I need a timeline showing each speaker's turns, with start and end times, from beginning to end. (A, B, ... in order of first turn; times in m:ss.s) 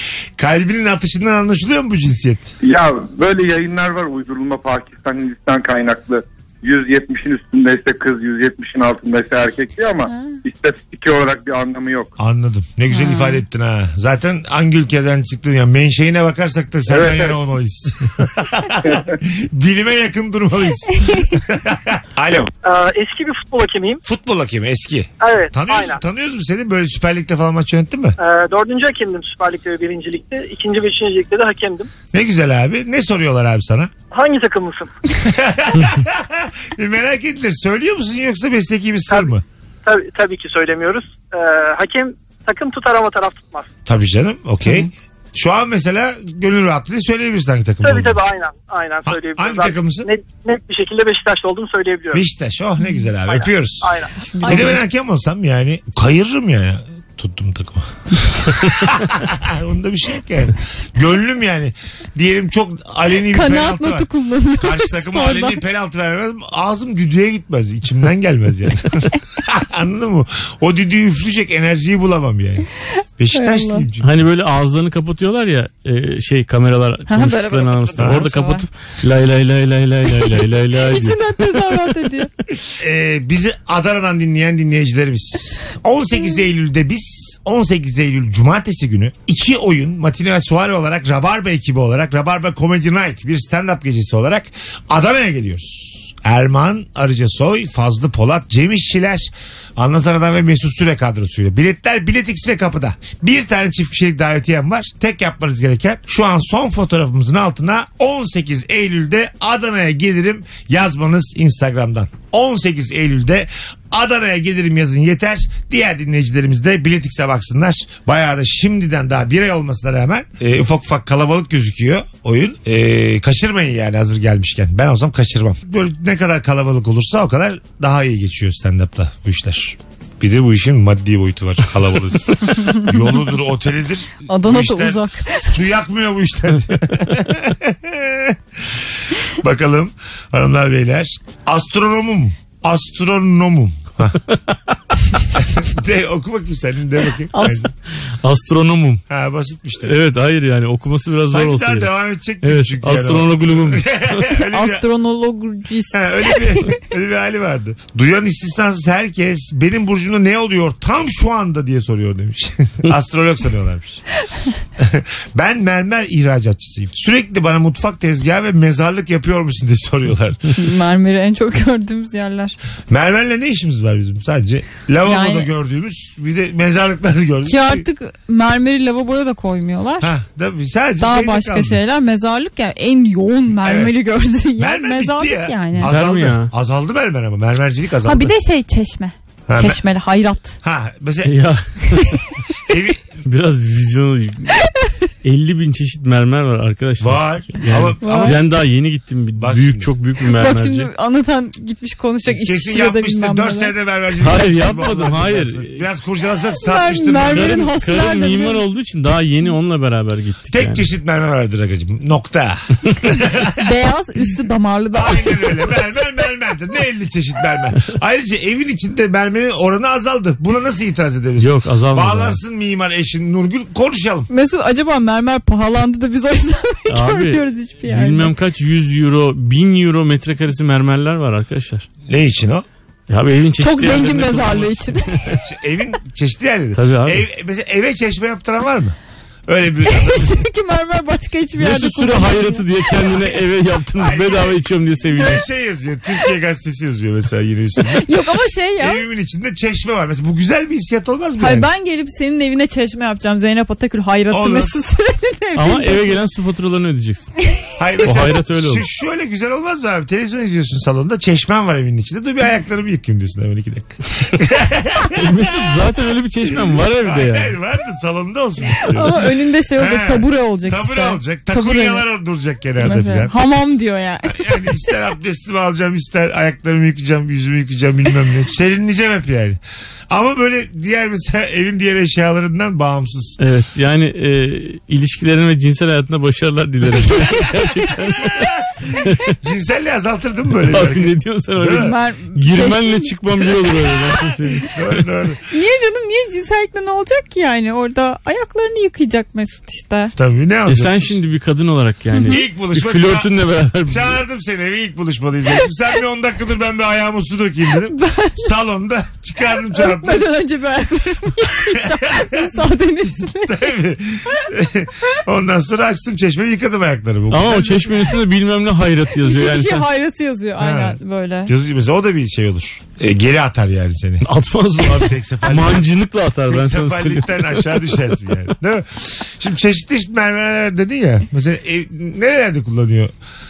0:00.4-0:02.5 A
0:02.6-0:12.1 B
0:10.0-0:10.4 C
0:12.2-0:22.5 A
0:12.9-0:13.4 C
0:16.9-0:17.3 B
0:22.6-0:24.0 D
0:24.0-0:28.2 A
0:25.2-0:26.0 D
0:28.2-0:31.9 D
0:32.1-0:33.9 A
0:34.1-0:34.9 D
0:35.2-0:39.4 A
0:39.1-0:39.3 D
0:39.8-0:43.7 D
0:43.8-0:48.2 A
0:47.8-0:52.2 D
0:49.0-0:50.1 A
0:52.1-1:04.1 A
0:53.2-0:54.7 D
0:54.2-0:54.8 C
1:03.3-1:05.6 C
1:04.6-1:14.1 A
1:13.3-1:13.8 C
1:14.0-1:21.3 E
1:17.1-1:18.6 C
1:18.0-1:18.3 A
1:20.1-1:22.3 C
1:22.8-2:24.2 A
2:12.6-2:13.0 C
2:14.3-2:15.5 C
2:25.3-2:27.7 A
2:27.3-2:27.6 C
2:28.2-2:29.0 E
2:29.1-2:30.0 A
2:29.8-2:31.9 E
2:31.3-2:34.8 A
2:32.4-2:34.2 E
2:34.5-2:36.8 C
2:35.9-2:44.0 A
2:44.8-2:50.5 A
2:50.6-2:52.6 C
2:52.9-2:57.9 A
2:55.0-2:55.5 C
2:57.4-3:00.1 C
3:00.0-3:01.8 A
3:01.0-3:05.9 C
3:03.6-3:03.9 A
3:04.6-3:08.3 A
3:05.8-3:06.5 E
3:08.0-3:10.6 C
3:09.5-3:09.8 A
3:10.6-3:11.4 A
3:11.2-3:12.2 E
3:12.7-3:13.1 A
3:13.2-3:14.5 E
3:15.2-3:20.9 E
3:17.0-3:18.5 A
3:18.0-3:18.4 C
3:19.4-3:19.9 A
3:20.3-3:23.7 C
3:22.2-3:27.6 A
3:24.2-3:25.8 E
3:26.6-3:28.6 C
3:27.3-3:30.8 E
3:30.5-3:33.6 A
3:33.6-3:35.8 C
3:34.9-3:44.3 A
3:41.4-3:42.4 E
3:44.3-3:48.3 C
3:46.9-3:51.9 E
3:52.0-3:52.6 A
3:53.1-3:55.4 E
3:53.6-3:55.2 C
3:55.3-3:59.0 A
3:56.7-3:57.2 E
3:59.5-4:00.4 A
3:59.8-4:02.7 C
4:01.6-4:05.4 E
4:03.0-4:03.4 A
4:03.9-4:08.1 A
4:08.0-4:09.0 C
4:08.8-4:11.7 A
4:11.4-4:16.2 C
4:14.3-4:14.7 A
4:15.5-4:17.3 E
4:17.8-4:25.7 A
4:18.0-4:18.8 E
4:25.1-4:27.5 E
4:26.5-4:33.3 A
4:28.9-4:32.0 C
4:32.8-4:34.8 C
4:34.2-4:39.6 A
4:40.1-4:43.4 A
4:43.4-4:48.4 E
4:47.0-4:47.5 C
4:49.0-4:49.3 E
4:49.4-4:51.9 A
4:50.7-4:54.7 E
4:51.7-4:53.2 C
4:54.0-4:55.4 A
4:55.5-5:00.1 C
5:00.2-5:01.2 A
5:00.6-5:04.2 E
5:02.1-5:02.4 C
5:02.3-5:03.3 A
5:03.9-5:10.3 A
5:07.8-5:08.5 C
5:09.7-5:13.7 C
5:11.7-5:12.5 A
5:13.3-5:18.1 A
5:17.3-5:19.9 E
5:19.2-5:21.5 C
5:20.6-5:25.9 A
5:24.2-5:27.8 E
5:26.4-5:33.1 A